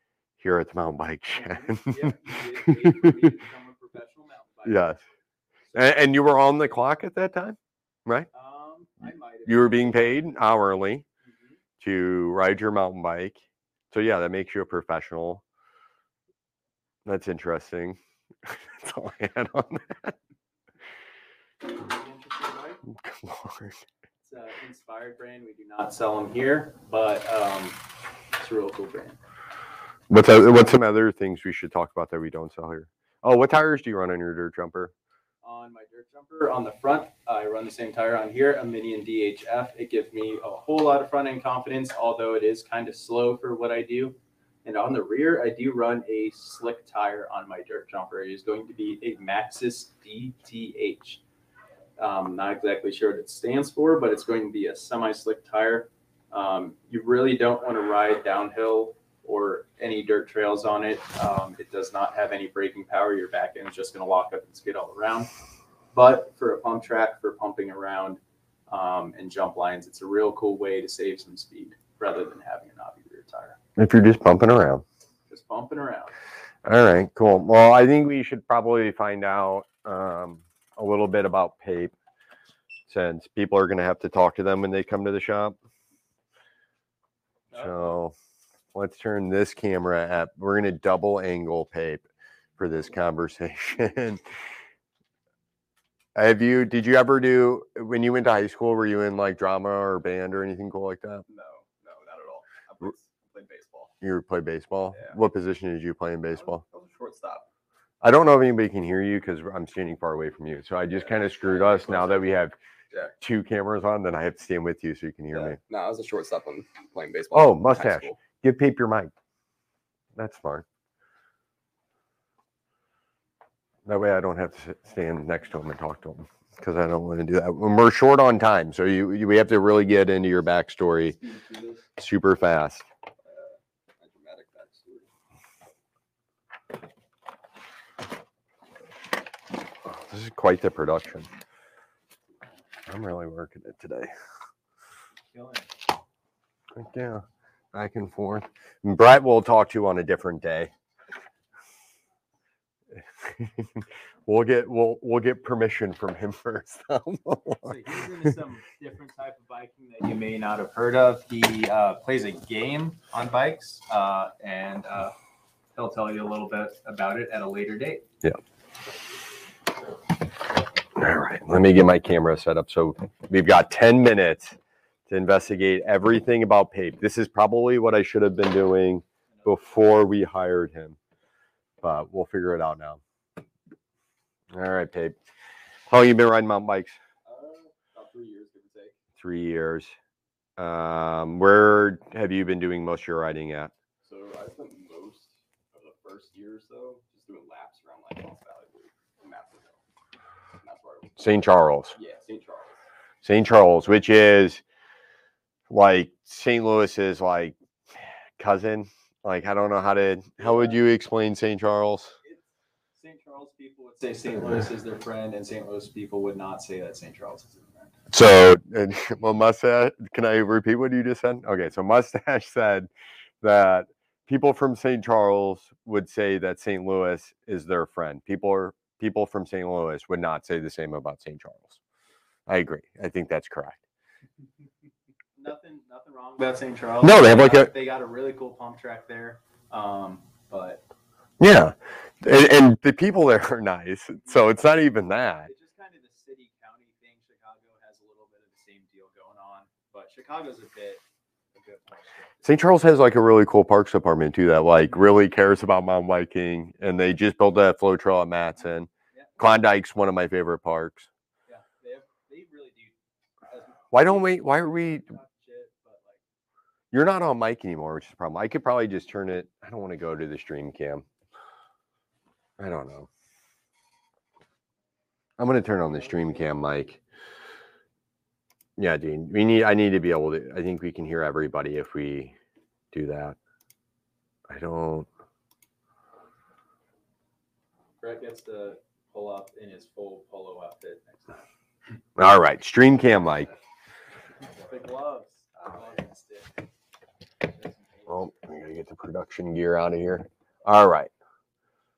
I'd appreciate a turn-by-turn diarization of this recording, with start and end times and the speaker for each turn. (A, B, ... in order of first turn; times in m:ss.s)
0:00.4-0:02.1 A
0:01.3-0:05.0 B
0:02.6-0:03.2 A
0:04.6-0:05.0 A
0:05.6-0:06.0 B
0:05.7-0:08.3 A
0:08.3-0:10.1 B
0:09.4-0:11.0 A
0:11.2-0:11.6 B
0:11.8-0:15.4 A
0:17.0-0:20.1 A
0:21.7-0:22.8 B
0:22.9-0:23.8 A
0:24.2-0:27.8 B
0:28.4-0:29.2 B
0:30.1-0:34.9 A
0:35.4-0:51.2 B
0:52.0-1:05.3 B
1:05.9-1:13.6 B
1:13.8-1:14.8 A
1:15.3-1:16.1 B
1:16.6-1:21.9 A
1:22.9-1:25.6 A
1:27.5-1:27.9 B
1:27.5-1:28.1 A
1:28.7-1:34.4 A
1:36.1-1:41.2 A
1:41.3-1:43.9 C
1:44.0-1:46.6 A
1:44.9-1:45.2 C
1:46.3-1:47.5 C
1:48.0-1:52.6 A
1:50.9-1:52.4 C
1:53.2-1:55.6 A
1:55.3-1:58.2 C
1:57.3-1:59.1 A
2:00.2-2:00.6 A
2:03.9-2:11.2 A
2:11.1-2:11.9 C
2:12.0-2:12.8 A
2:13.2-2:15.1 C
2:19.9-2:21.3 A
2:22.9-2:24.1 A
2:25.3-2:25.7 B
2:26.7-2:30.7 A
2:32.9-2:38.3 A
2:37.6-2:45.2 B
2:45.7-2:48.0 B
2:51.0-2:54.6 A
2:55.1-3:01.0 A
2:59.3-2:59.8 B
3:01.8-3:03.0 A
3:04.5-3:05.2 A
3:05.9-3:07.0 A
3:07.2-3:09.0 C
3:09.2-3:10.0 A
3:10.6-3:13.7 A
3:14.0-3:19.8 C
3:20.6-3:21.3 C
3:21.2-3:21.9 A
3:21.9-3:22.8 C
3:23.2-3:24.6 A
3:25.7-3:32.1 A
3:32.9-3:37.9 B
3:38.1-3:42.9 A
3:43.4-3:51.8 A
3:52.5-3:53.8 A
3:55.4-4:00.8 B
3:57.0-3:57.7 A
4:01.4-4:05.5 A
4:05.4-4:11.0 B
4:11.5-4:12.5 B
4:12.4-4:21.1 A
4:21.5-4:22.9 B
4:23.5-4:26.2 B
4:23.9-4:25.0 A
4:26.9-4:31.0 A
4:32.6-4:33.1 A
4:35.4-4:37.0 A
4:35.9-4:36.4 B
4:38.8-4:42.3 A
4:42.9-4:43.4 A
4:44.5-4:45.1 A
4:48.0-4:51.5 B
4:52.2-4:53.5 A
4:54.6-4:56.6 B
4:57.4-4:58.4 B
4:58.1-5:01.1 A